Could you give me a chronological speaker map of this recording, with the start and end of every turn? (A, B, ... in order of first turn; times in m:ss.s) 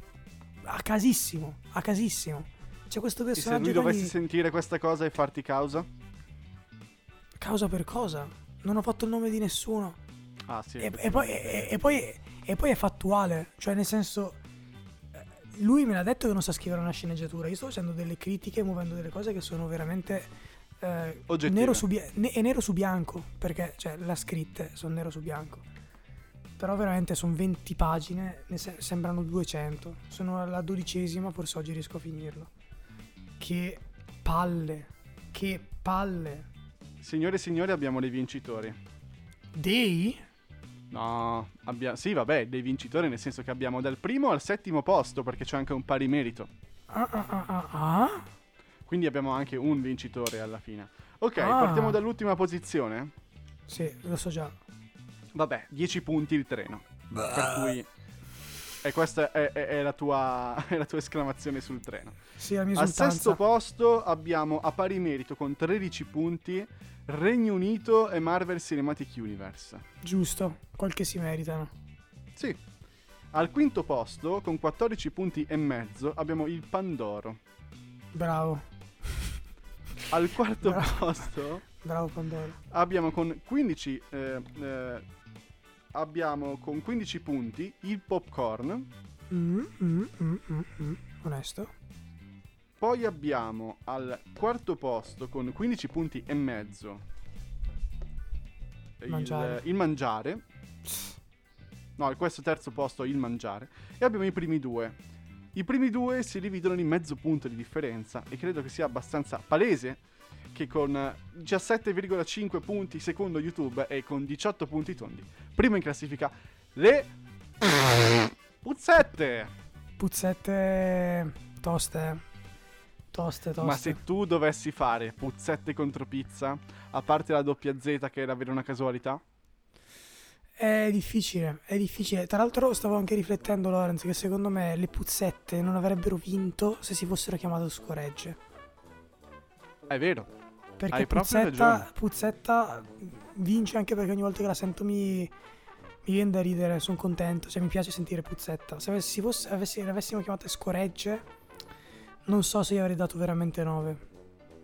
0:00.6-0:04.2 A
0:03.4-0:05.9 B
0:07.4-0:10.0 A
0:10.5-0:11.8 B
0:10.8-0:14.4 A
0:15.1-0:25.6 A
0:21.3-0:21.8 B
0:26.6-0:32.5 A
0:33.4-0:36.5 A
0:37.0-0:38.8 B
0:39.5-0:40.2 A
0:40.9-0:46.5 B
0:46.9-0:48.3 A
0:48.9-0:53.1 B
0:51.4-0:52.0 A
0:53.7-0:54.6 A
0:55.3-0:57.9 B
0:58.8-1:02.2 B
1:02.4-1:03.4 A
1:02.8-1:09.8 B
1:10.0-1:11.7 A
1:13.3-1:17.4 B
1:18.1-1:19.2 A
1:20.1-1:21.6 B
1:20.7-1:21.0 A
1:21.8-1:22.6 A
1:22.7-1:25.0 B
1:25.9-1:28.9 B
1:29.3-1:31.7 A
1:32.8-1:37.0 B
1:39.0-1:40.4 B
1:39.1-1:39.6 A
1:42.0-1:45.0 B
1:45.5-1:50.0 B
1:50.5-1:57.1 B
1:58.6-1:59.5 B
2:00.0-2:02.2 A
2:03.1-2:04.0 A
2:03.6-2:09.2 B
2:10.6-2:18.4 A
2:19.9-2:20.3 B
2:20.8-2:25.3 A
2:20.9-2:21.9 B
2:26.0-2:31.3 A
2:32.3-2:34.0 A